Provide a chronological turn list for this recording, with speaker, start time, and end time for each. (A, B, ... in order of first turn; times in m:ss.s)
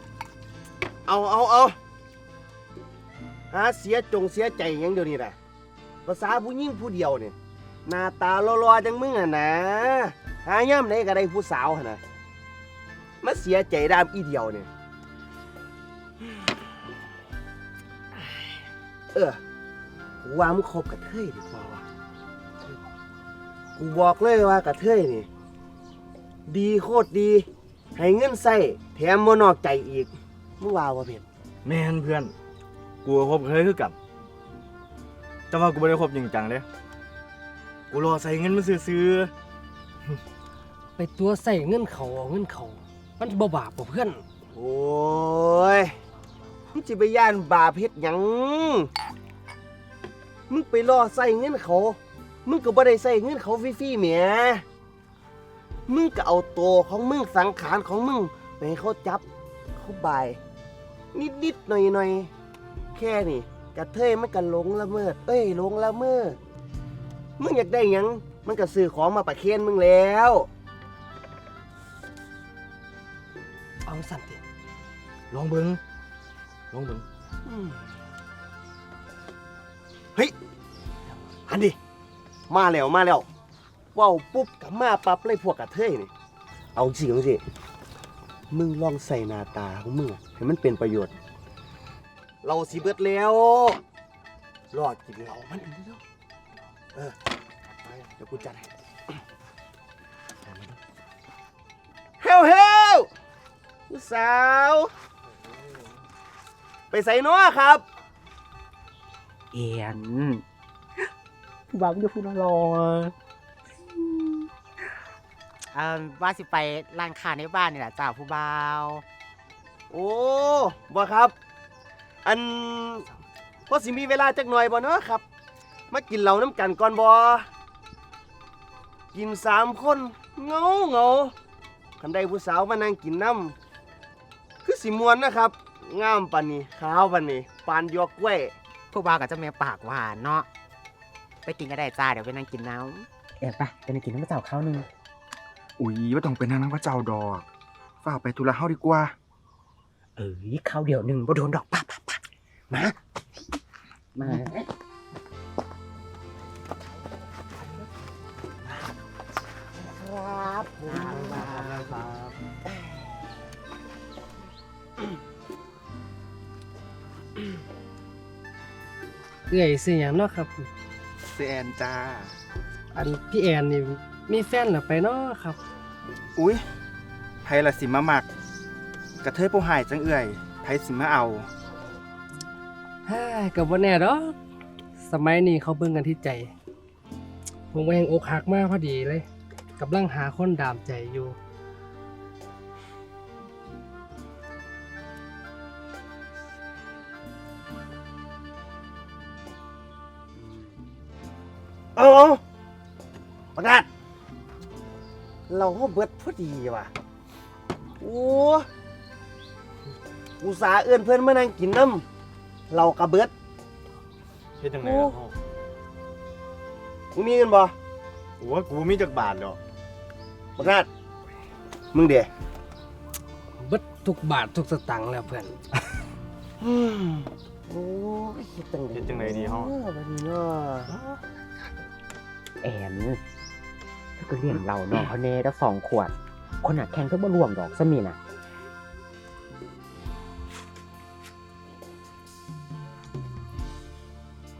0:01.1-0:01.8 A
0:03.5-0:05.3 A
0:06.0-0:07.3 A
0:07.8-0:12.0 A
0:13.2-0:14.7 A
0:19.1-0:19.4 A
0:20.2-0:21.8 A
0:23.8-0:25.3 A
0:26.5-0:31.2 A
0:31.6-0:32.3 B
0:33.0-0:33.9 B
0:35.5-0:36.6 B
0:37.9-0:39.3 B
0:41.0-0:44.2 C
0:44.5-0:45.9 A
0:46.7-0:48.9 A
0:50.5-0:54.6 A
0:55.9-0:59.2 A
0:59.8-1:00.4 A
1:01.1-1:02.3 A
1:02.9-1:06.4 A
1:07.4-1:10.5 A
1:13.8-1:14.4 B
1:15.3-1:15.8 B
1:16.7-1:17.0 B
1:17.4-1:17.8 A
1:21.5-1:21.8 A
1:22.5-1:23.2 A
1:23.9-1:26.1 A
1:26.7-1:27.4 A
1:28.5-1:31.1 A
1:32.4-1:33.8 A
1:34.7-1:36.0 A
1:37.9-1:38.7 A
1:40.5-1:40.7 A
1:42.2-1:43.1 A
1:43.9-1:44.9 A
1:46.9-1:47.8 A
1:49.5-1:50.4 D
1:51.7-1:53.1 D
1:53.9-1:54.5 D
1:55.7-1:59.0 D
1:59.9-2:01.3 A
2:02.2-2:03.0 A
2:03.7-2:05.2 A
2:05.9-2:07.5 A
2:09.1-2:11.3 A
2:12.0-2:13.5 A
2:14.6-2:18.5 A
2:18.9-2:20.5 D
2:21.4-2:24.9 D
2:25.8-2:27.4 E
2:28.0-2:29.1 E
2:30.2-2:33.0 D
2:34.1-2:34.7 D
2:39.8-2:42.0 D
2:40.8-2:41.4 A
2:49.5-2:50.7 C
2:51.3-2:52.3 E
2:52.9-2:55.6 C
2:56.4-2:56.6 E
2:57.4-2:58.3 E
2:59.2-3:01.5 E
3:03.0-3:04.3 C
3:05.0-3:06.5 C
3:07.7-3:09.2 C
3:09.8-3:11.4 C
3:22.0-3:22.4 A
3:23.6-3:23.8 A
3:25.5-3:26.9 A
3:28.0-3:28.7 A
3:30.4-3:32.0 A
3:32.7-3:33.3 A
3:34.6-3:35.3 B
3:34.8-3:35.2 A
3:37.1-3:37.7 A
3:38.4-3:39.6 B
3:40.6-3:40.9 A
3:41.9-3:42.3 A
3:43.6-3:45.5 C
3:46.6-3:51.2 A
3:48.9-3:49.7 B
3:52.6-3:53.2 D
3:54.2-3:58.2 D